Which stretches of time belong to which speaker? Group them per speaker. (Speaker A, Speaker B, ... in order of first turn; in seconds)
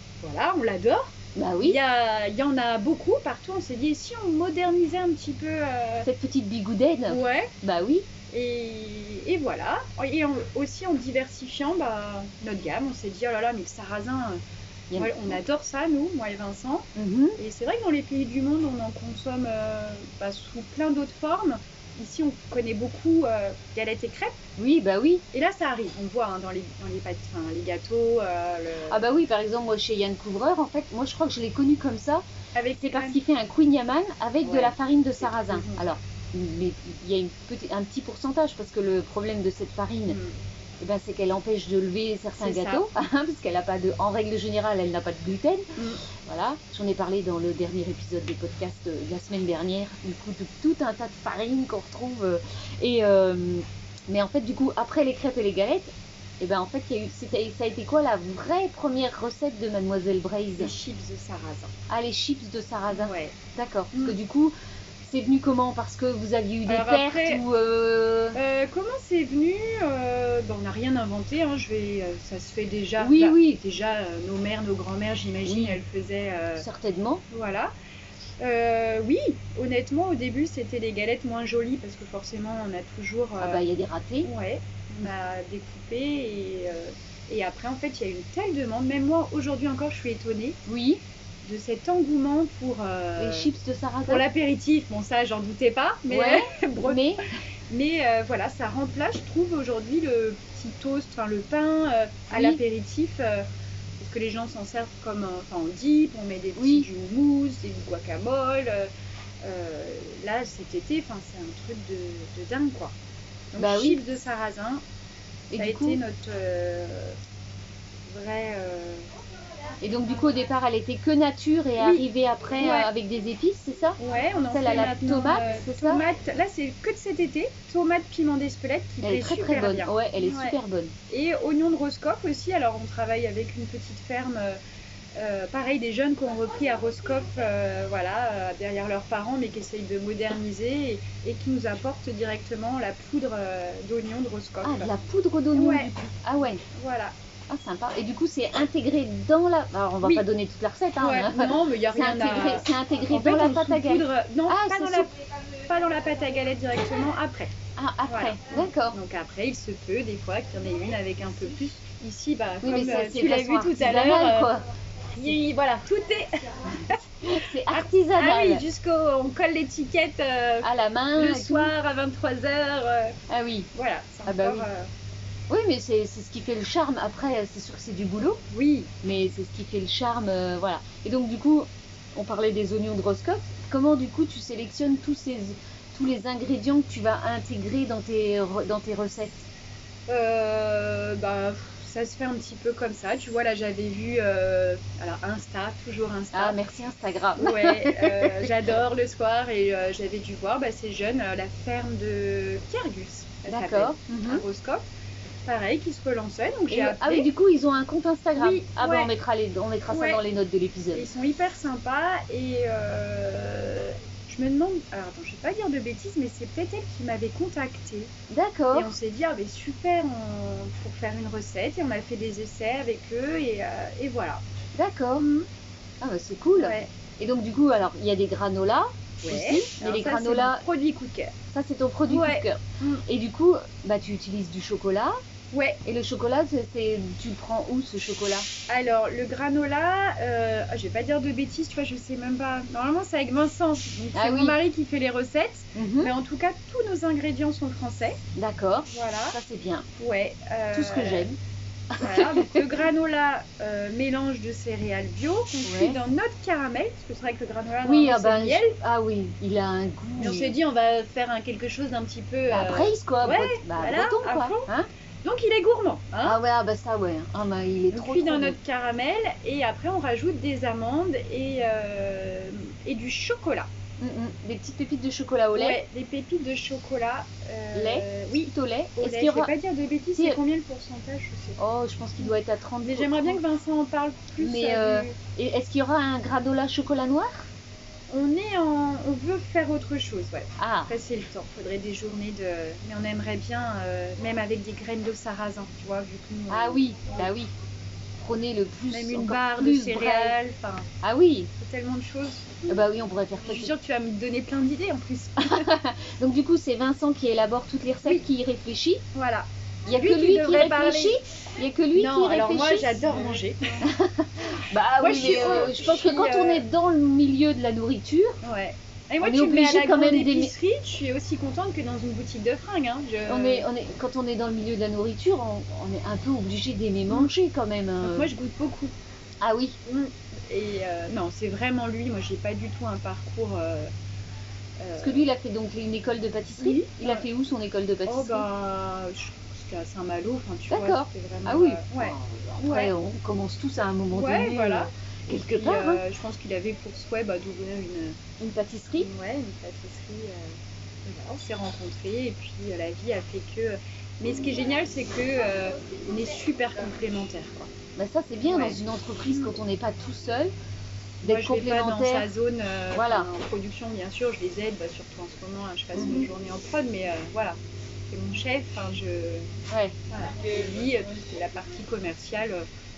Speaker A: 0.2-6.1, 7.1-7.5, 8.3-14.4, 14.9-24.4, 25.3-29.0, 32.5-33.2, 34.4-35.8, 40.1-40.4, 42.4-42.9, 45.8-46.0, 60.6-61.7, 62.9-63.4, 66.7-67.4, 68.3-76.6, 77.3-77.7, 78.4-83.6, 84.2-90.6, 91.4-93.5, 94.0-97.0, 97.7-103.5, 104.0-108.9, 109.4-112.9, 113.5-114.8, 115.5-117.2, 118.1-119.1, 121.8-122.0, 122.6-122.9, 124.0-130.6, 131.1-134.6, 135.1-144.9, 145.5-145.9, 146.7-147.1, 151.0-157.5, 158.1-164.5, 165.1-167.0, 167.7-173.2, 173.7-174.9, 178.5-178.9, 190.1-196.6, 197.4-204.8, 205.4-207.3, 208.3-209.1, 209.9-210.2, 210.9-218.1, 218.7-224.4, 225.2-225.5, 226.5-226.9, 229.2-231.3, 232.1-233.0, 235.5-235.8, 238.7-248.2, 248.9-249.4, 250.0-251.3, 252.0-258.8, 260.2-264.7, 265.2-266.4, 267.9-273.7, 275.5-281.6, 282.2-285.1, 288.1-297.3, 298.9-300.9, 301.6-302.8, 303.4-305.7, 309.1-311.2, 311.9-313.9, 315.0-316.6, 318.4-323.6, 328.0-328.9, 329.8-333.9, 334.8-335.2, 336.6-337.2, 338.1-342.9, 344.1-344.9, 345.5-348.2, 349.0-357.7, 358.4-358.8, 361.2-367.6, 368.1-369.5, 370.1-372.6
Speaker B: 1.3-1.8, 6.0-8.1, 14.9-15.4, 16.9-17.4, 24.6-25.2, 28.9-32.2, 32.8-40.2, 40.8-60.7, 61.9-68.4, 73.0-73.6, 75.4-75.8, 76.6-77.2, 83.4-84.3, 90.7-91.0, 93.2-94.2, 96.1-97.2, 102.3-102.6, 106.5-106.9, 113.6-114.0, 115.5-116.0, 119.8-126.0, 129.0-130.9, 144.6-146.6, 147.5-155.1, 157.8-159.0, 162.6-164.6, 166.9-168.6, 170.6-171.7, 173.3-173.7, 174.2-174.7, 175.5-178.4, 179.0-189.5, 196.3-198.5, 203.5-204.4, 206.7-211.1, 218.3-218.9, 224.7-225.2, 226.0-230.6, 231.5-235.2, 235.8-238.5, 244.1-244.6, 245.7-246.1, 248.3-249.9, 250.7-251.4, 251.9-252.7, 255.6-256.0, 257.8-260.5, 262.5-264.9, 266.2-268.6, 274.0-275.8, 277.7-279.5, 281.6-283.4, 284.4-287.5, 290.6-290.9, 296.5-297.5, 298.2-300.4, 301.0-301.5, 302.7-303.7, 305.4-309.0, 309.9-318.4, 319.2-320.5, 323.3-328.3, 329.4-329.8, 335.0-338.5, 340.7-346.0, 348.4-349.1, 357.9-360.5, 361.2-362.3, 362.9-363.3, 365.9-366.3, 369.7-369.9